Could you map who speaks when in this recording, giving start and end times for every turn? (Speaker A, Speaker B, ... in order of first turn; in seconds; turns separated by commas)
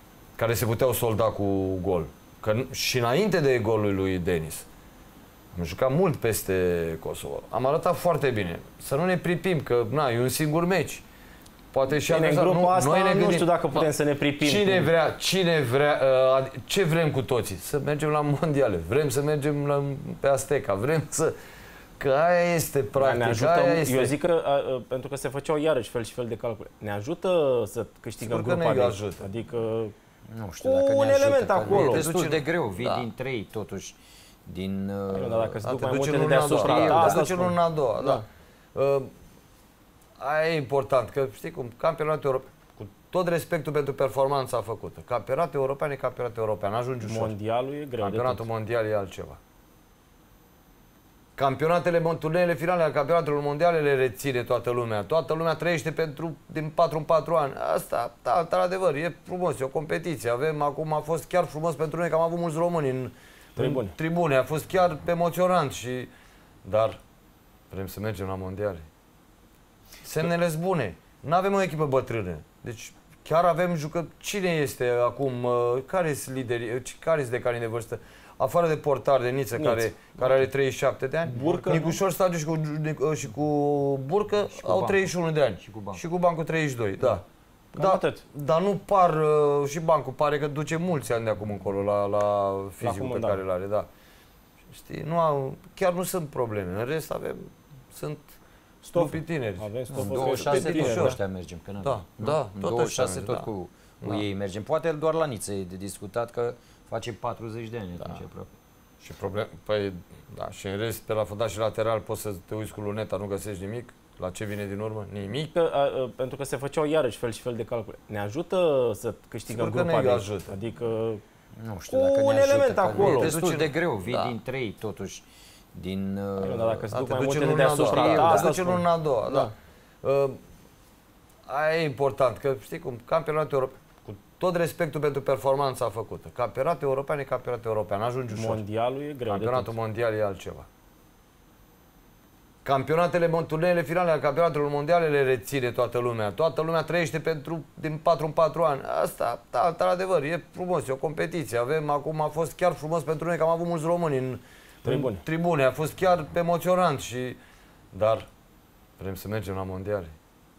Speaker A: 0.4-4.7, Speaker A: 5.5-11.0, Speaker A: 11.7-21.4, Speaker B: 12.1-14.9, Speaker A: 22.0-24.1, Speaker B: 23.0-29.9, Speaker A: 28.2-29.2, Speaker C: 30.3-35.6, Speaker B: 30.6-32.1, Speaker A: 31.6-33.1, Speaker B: 35.1-38.2, Speaker A: 35.6-38.2, Speaker C: 36.4-37.3, Speaker A: 38.8-39.1, Speaker A: 40.2-47.3, Speaker B: 47.0-48.4, Speaker A: 48.0-49.4, Speaker A: 51.4-66.1, Speaker B: 63.6-64.0, Speaker A: 66.7-67.0, Speaker A: 67.7-68.9, Speaker A: 70.0-87.2, Speaker B: 79.6-80.3, Speaker B: 81.3-81.9, Speaker C: 81.4-82.0, Speaker C: 84.5-86.0, Speaker B: 87.8-88.2, Speaker A: 87.8-93.9, Speaker B: 92.8-93.4, Speaker A: 94.7-98.3, Speaker B: 98.8-101.2, Speaker A: 98.9-101.2, Speaker C: 99.9-108.5, Speaker A: 101.8-103.5, Speaker A: 109.0-115.5, Speaker B: 115.5-121.2, Speaker A: 119.5-120.5, Speaker C: 121.5-126.8, Speaker B: 121.9-123.3, Speaker A: 122.9-124.4, Speaker B: 126.4-129.5, Speaker A: 126.9-129.5, Speaker C: 127.7-128.6, Speaker A: 130.0-130.4, Speaker A: 131.5-138.6, Speaker B: 138.3-139.7, Speaker A: 139.3-140.7, Speaker A: 142.7-157.4, Speaker B: 154.8-155.2, Speaker A: 157.9-158.3, Speaker A: 159.0-160.1